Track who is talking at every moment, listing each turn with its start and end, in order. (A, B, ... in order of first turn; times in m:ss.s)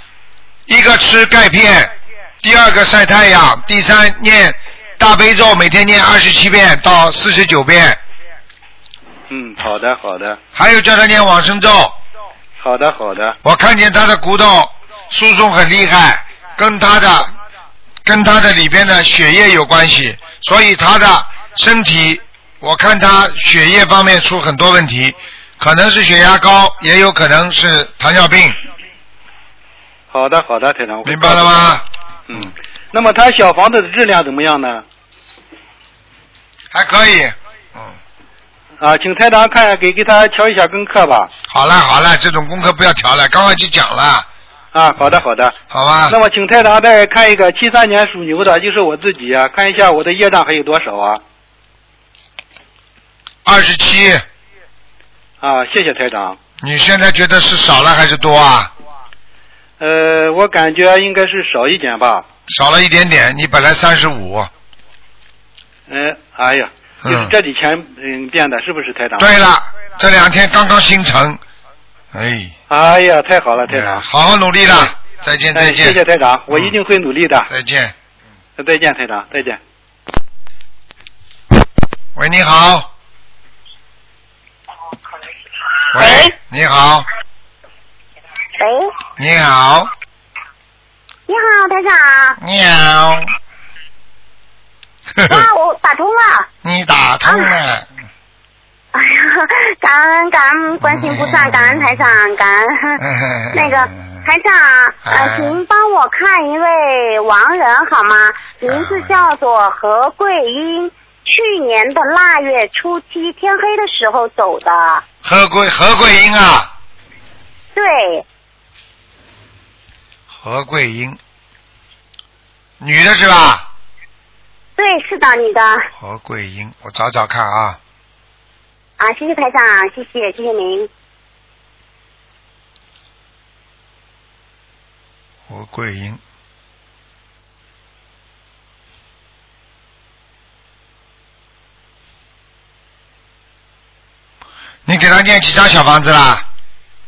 0:00.7-0:08.0 A
0:09.3-0:10.4 B
0:10.5-0:12.0 A
0:12.6-0:13.4 B
0:13.4-0:17.3 A
0:18.0-0:28.6 A
0:30.1-0:34.8 B
0:31.0-0:32.5 A
0:36.7-0:38.0 A
0:38.8-0:41.3 B
0:41.5-0:44.3 A
0:44.7-0:45.5 B
0:45.7-0:46.2 A
0:46.1-0:51.2 B
0:53.4-0:54.2 A
0:55.4-0:56.4 B
0:56.6-0:58.7 A
0:59.8-1:02.2 B
1:02.5-1:04.5 A
1:05.9-1:09.3 B
1:07.0-1:07.3 A
1:09.2-1:11.4 A
1:12.1-1:12.5 A
1:12.7-1:14.0 B
1:13.6-1:16.7 A
1:15.5-1:17.5 B
1:17.5-1:17.9 A
1:18.6-1:19.6 B
1:22.1-1:22.9 A
1:25.9-1:27.0 A
1:26.0-1:26.3 C
1:28.6-1:28.9 C
1:29.2-1:29.9 A
1:31.3-1:32.4 C
1:32.4-1:33.3 A
1:35.2-1:35.4 A
1:35.2-1:36.5 C
1:36.6-1:37.9 A
1:37.2-1:37.6 C
1:38.9-1:43.0 C
1:40.8-1:42.1 A
1:43.0-1:44.2 A
1:43.5-1:55.0 C
1:45.0-1:45.6 A
1:48.7-1:49.2 A
1:55.2-1:56.7 A
1:57.7-1:58.2 C
2:00.3-2:01.2 A
2:02.8-2:03.6 A
2:04.8-2:05.8 C
2:06.0-2:07.8 A
2:09.0-2:10.9 C
2:15.5-2:16.2 A
2:24.8-2:26.4 A